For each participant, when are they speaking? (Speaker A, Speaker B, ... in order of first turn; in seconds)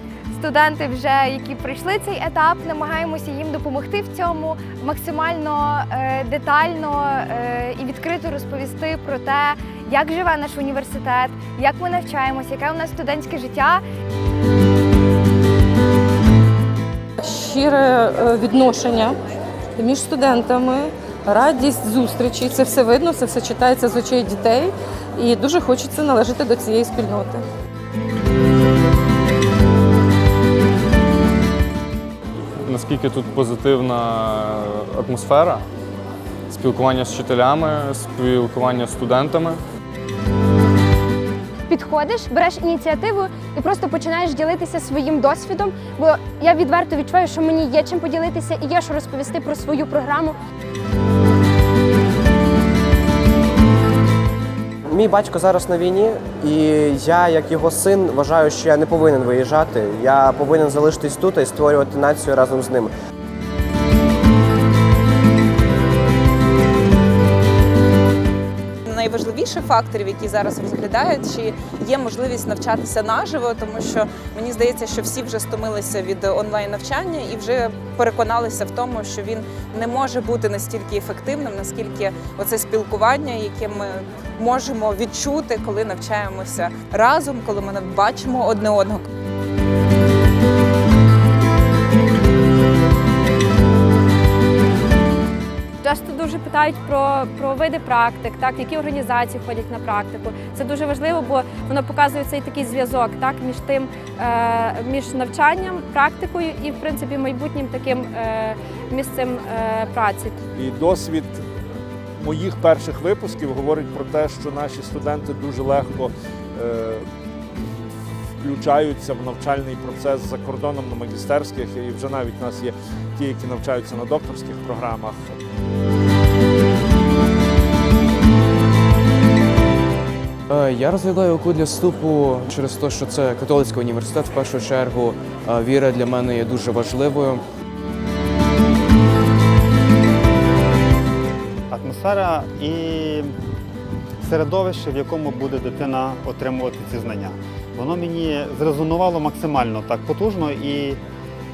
Speaker A: 0.3-13.8
Speaker B: 17.2-19.2, 19.8-27.4
Speaker C: 32.6-35.6, 36.5-39.6
Speaker D: 41.7-50.4
Speaker E: 54.9-62.9
Speaker F: 68.9-89.0
Speaker G: 95.8-110.3
Speaker H: 110.6-111.4, 112.2-117.0, 118.4-125.2
Speaker I: 130.5-137.4
Speaker J: 141.7-143.3, 144.2-151.0